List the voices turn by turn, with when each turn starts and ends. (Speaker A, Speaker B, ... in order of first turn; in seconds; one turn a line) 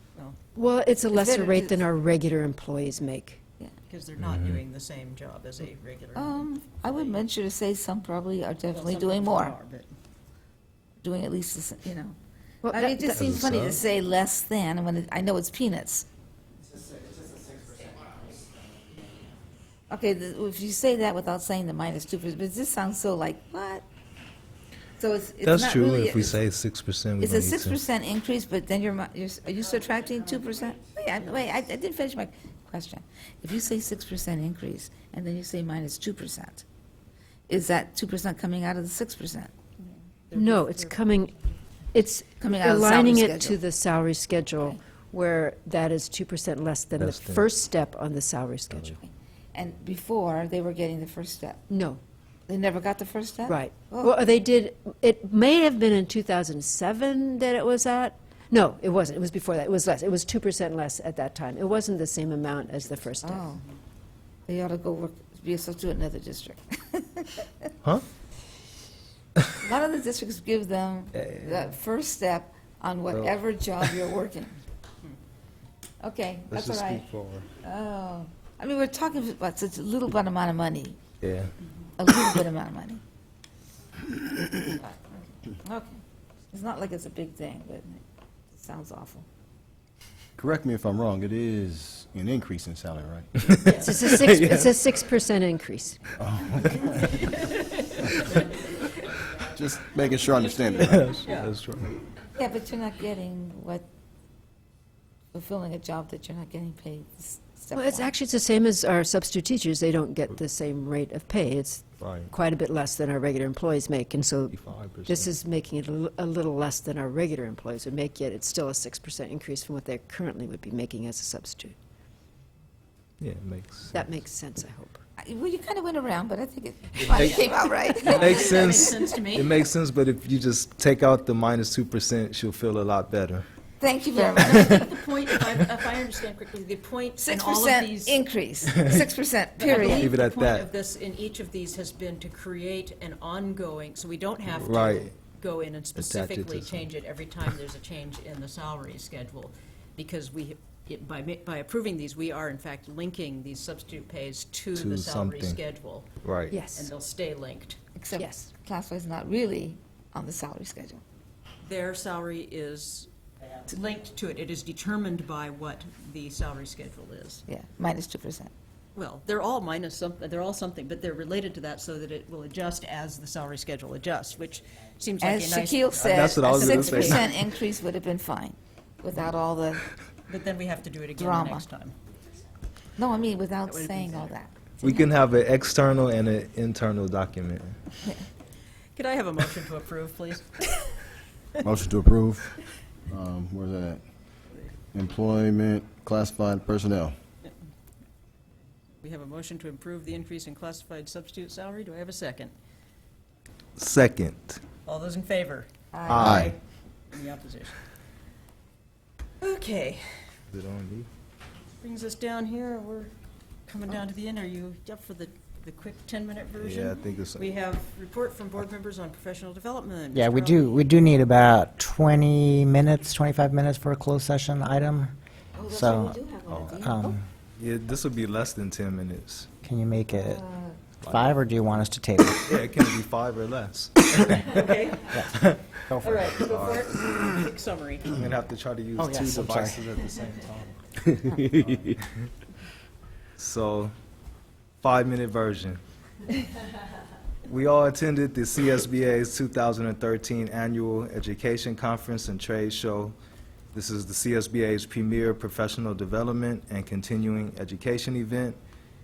Speaker A: 0.5-3.4
Speaker B: 1.1-1.8
Speaker C: 3.9-7.2
Speaker D: 4.3-4.6
Speaker B: 6.1-9.5
Speaker C: 8.7-9.9
Speaker B: 11.0-16.1
Speaker A: 12.6-13.5
Speaker D: 13.1-13.8
Speaker B: 19.9-23.8
Speaker B: 25.0-26.4
Speaker D: 25.4-27.8
Speaker B: 27.2-36.6
Speaker B: 37.5-39.5
Speaker C: 40.3-41.0
Speaker A: 40.3-41.4
Speaker A: 41.9-49.0
Speaker B: 42.4-43.6
Speaker D: 47.0-47.5
Speaker B: 48.9-51.6
Speaker A: 51.7-52.0
Speaker B: 52.5-54.3
Speaker A: 53.5-63.5
Speaker B: 63.2-63.6
Speaker B: 64.5-67.7
Speaker B: 69.6-74.6
Speaker D: 71.1-71.7
Speaker D: 73.1-74.0
Speaker B: 76.0-77.0
Speaker D: 76.5-77.5
Speaker B: 77.6-81.0
Speaker D: 81.2-81.5
Speaker B: 82.0-83.0
Speaker B: 84.6-86.0
Speaker B: 86.5-88.0
Speaker B: 88.5-89.2
Speaker E: 90.4-93.5
Speaker D: 93.4-94.7
Speaker C: 93.6-93.9
Speaker A: 93.7-96.1
Speaker E: 96.1-97.2
Speaker C: 96.9-98.4
Speaker E: 99.5-101.2
Speaker C: 100.8-101.5
Speaker D: 100.9-101.9
Speaker B: 102.4-103.8
Speaker B: 105.3-108.1
Speaker A: 107.7-121.8
Speaker D: 112.0-112.3
Speaker D: 114.5-115.3
Speaker D: 123.2-124.2
Speaker A: 123.9-125.0
Speaker B: 125.2-129.2
Speaker D: 127.1-127.4
Speaker C: 127.1-129.6
Speaker D: 128.0-133.4
Speaker B: 133.8-135.0
Speaker C: 134.1-138.2
Speaker D: 134.4-134.8
Speaker B: 137.2-140.1
Speaker D: 138.7-139.1
Speaker C: 139.6-157.8
Speaker D: 139.8-140.7
Speaker D: 144.5-145.1
Speaker D: 146.0-146.8
Speaker D: 154.7-155.6
Speaker D: 156.2-156.6
Speaker A: 156.5-156.9
Speaker B: 158.0-161.0
Speaker A: 158.2-158.5
Speaker C: 161.6-163.1
Speaker C: 163.7-167.4
Speaker B: 167.5-168.5
Speaker C: 168.9-177.3
Speaker B: 175.2-179.8
Speaker D: 176.0-177.3
Speaker C: 180.3-181.9
Speaker B: 181.2-181.6
Speaker B: 183.0-185.1
Speaker A: 183.7-184.3
Speaker D: 184.8-187.7
Speaker C: 188.9-190.7
Speaker E: 191.6-192.5
Speaker E: 193.1-194.0
Speaker E: 194.9-197.1
Speaker C: 199.0-202.5
Speaker D: 203.8-204.6
Speaker C: 204.8-206.6
Speaker B: 205.9-206.3
Speaker D: 206.1-206.5
Speaker E: 206.2-206.5
Speaker C: 207.1-207.8
Speaker C: 209.4-210.2
Speaker D: 210.5-211.1
Speaker C: 211.8-213.1
Speaker C: 213.7-221.2
Speaker D: 216.6-217.4
Speaker F: 220.1-225.1
Speaker B: 225.5-227.1
Speaker F: 225.7-226.2
Speaker D: 226.4-227.0
Speaker F: 226.8-227.2
Speaker D: 227.6-229.5
Speaker F: 229.6-230.4
Speaker B: 230.1-230.8
Speaker D: 231.0-231.4
Speaker F: 231.0-232.5
Speaker D: 232.4-234.7
Speaker C: 234.3-235.3
Speaker F: 235.1-236.3
Speaker D: 235.3-236.9
Speaker C: 236.0-238.2
Speaker D: 238.1-241.8
Speaker F: 239.0-239.9
Speaker F: 241.3-241.9
Speaker D: 243.4-243.9
Speaker D: 244.8-245.8
Speaker D: 247.5-253.1
Speaker D: 253.7-258.6